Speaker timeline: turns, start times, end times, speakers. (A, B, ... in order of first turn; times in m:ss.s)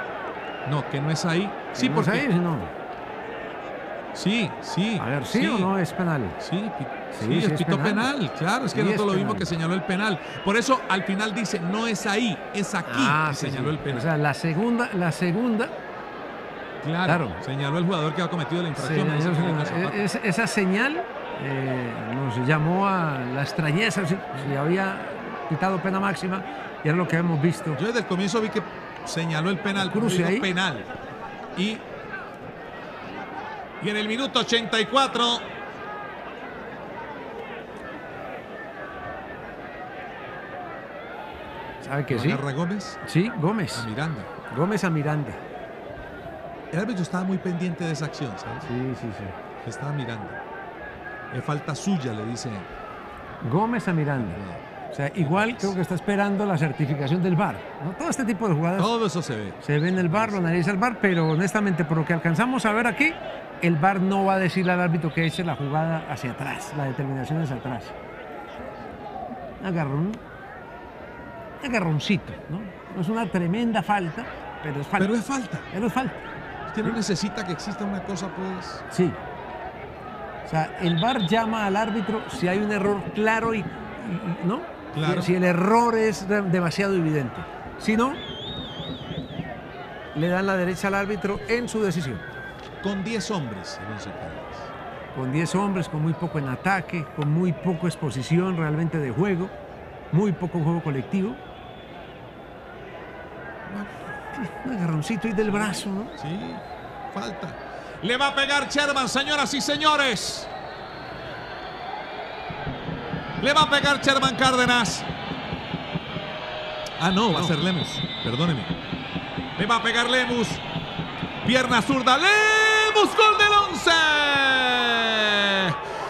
0:00.6-0:02.3 A
0:01.8-0:02.7 B
0:04.2-0:05.7 A
0:05.0-0:06.4 B
0:06.4-0:14.1 A
0:07.2-0:08.1 B
0:08.7-0:09.5 B
0:12.9-0:15.7 B
0:16.8-0:20.1 A
0:17.1-0:17.4 B
0:18.7-0:27.8 B
0:27.8-0:30.9 A
0:29.8-0:30.5 B
0:31.6-0:31.8 A
0:33.8-0:35.5 A
0:41.8-0:42.4 B
0:42.1-0:43.0 A
0:43.0-0:43.9 B
0:43.7-0:44.3 A
0:44.5-0:45.4 B
0:46.7-0:48.7 A
0:48.7-0:49.4 B
0:49.6-0:50.4 A
0:51.3-0:52.7 A
0:53.4-0:54.4 B
0:54.2-0:54.6 A
0:54.9-0:58.9 B
0:55.2-0:55.7 A
0:58.8-1:00.4 A
0:59.6-1:08.0 B
1:09.6-1:10.2 B
1:11.6-1:15.2 B
1:15.0-1:15.7 A
1:15.7-1:16.2 B
1:16.7-1:18.8 A
1:18.9-1:19.2 B
1:20.5-1:28.2 B
1:24.9-1:25.3 A
1:30.1-1:32.2 B
1:32.8-1:34.7 A
1:35.2-1:39.5 B
1:40.1-1:41.4 B
1:43.7-1:44.2 A
1:44.4-1:46.2 B
1:45.4-1:50.5 A
1:53.4-1:55.1 A
1:57.0-1:58.7 A
1:59.6-2:00.6 A
2:01.4-2:05.8 A